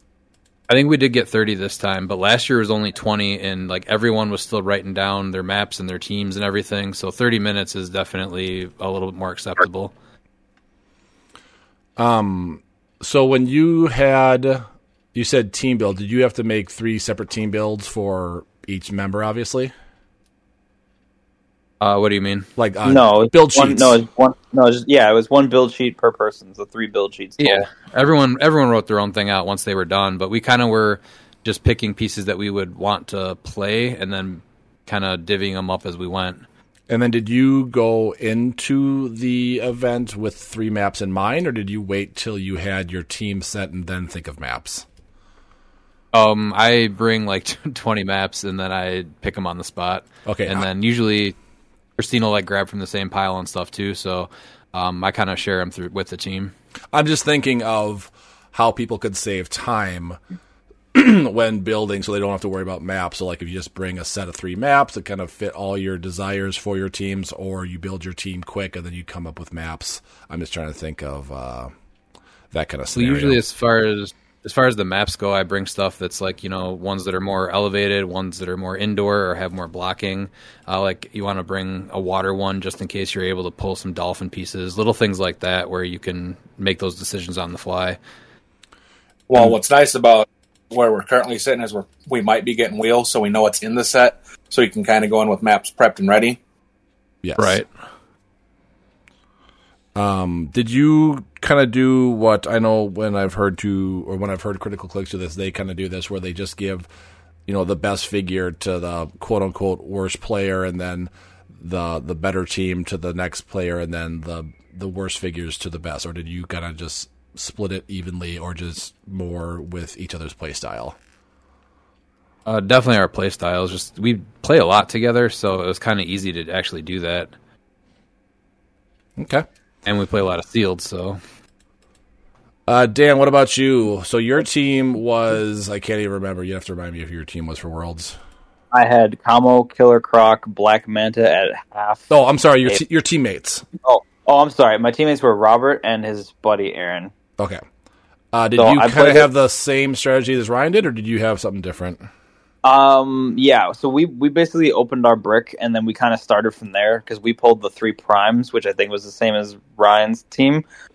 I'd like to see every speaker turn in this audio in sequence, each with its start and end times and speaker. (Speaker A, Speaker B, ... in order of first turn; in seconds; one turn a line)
Speaker A: 0.7-9.9
Speaker B: 12.0-19.7
Speaker A: 21.8-22.5
Speaker B: 22.6-24.0
Speaker C: 22.9-27.7
Speaker A: 27.4-36.4
Speaker B: 36.9-44.9
Speaker A: 46.1-51.4
Speaker B: 50.3-50.7
Speaker A: 52.0-56.5
Speaker B: 56.9-60.2
Speaker B: 60.9-71.7
Speaker B: 72.5-73.4
Speaker A: 72.9-88.0
Speaker D: 89.3-96.4
Speaker B: 97.2-97.6
Speaker A: 97.4-97.7
Speaker B: 100.0-106.9
Speaker B: 107.5-121.0
Speaker A: 122.5-127.3
Speaker B: 129.2-129.5
Speaker A: 129.8-131.2
Speaker B: 132.7-138.2
Speaker C: 138.7-142.1
Speaker B: 142.1-143.7
Speaker C: 143.8-147.1
Speaker B: 148.3-152.1
Speaker C: 148.6-149.3
Speaker C: 152.6-160.6